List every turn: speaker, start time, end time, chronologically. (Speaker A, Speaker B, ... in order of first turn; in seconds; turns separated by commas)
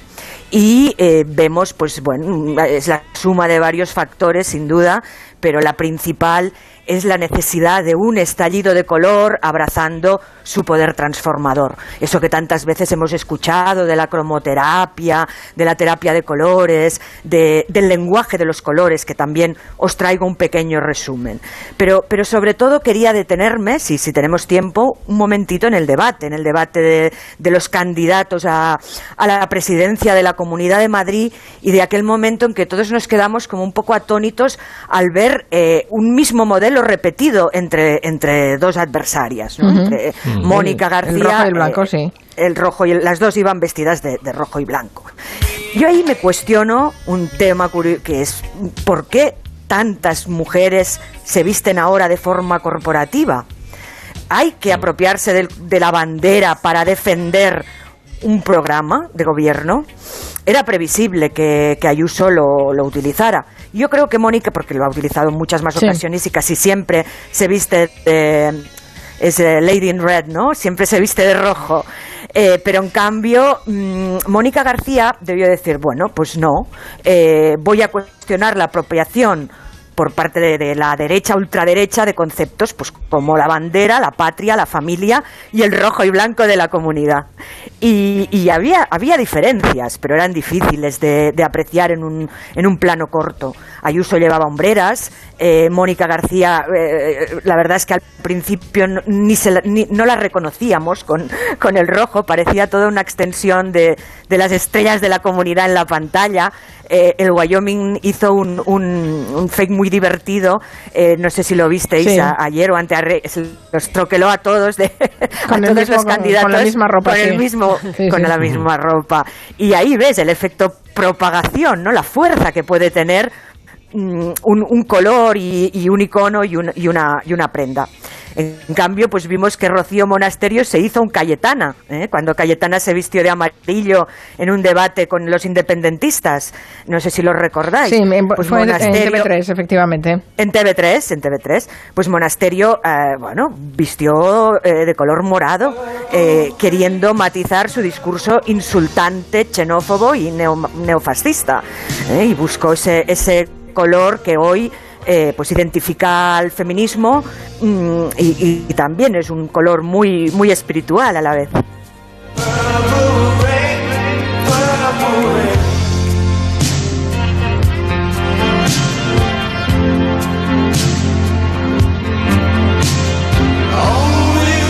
Speaker A: 0.5-45.1, Speaker B: 39.6-40.0, Speaker B: 40.5-42.1, Speaker A: 45.7-53.5, Speaker A: 54.3-57.6, Speaker A: 58.2-59.9, Speaker A: 60.5-68.6, Speaker A: 69.2-87.3, Speaker A: 87.8-123.3, Speaker B: 112.0-112.3, Speaker B: 115.5-118.3, Speaker A: 123.9-139.3, Speaker B: 137.9-140.2, Speaker A: 140.4-161.6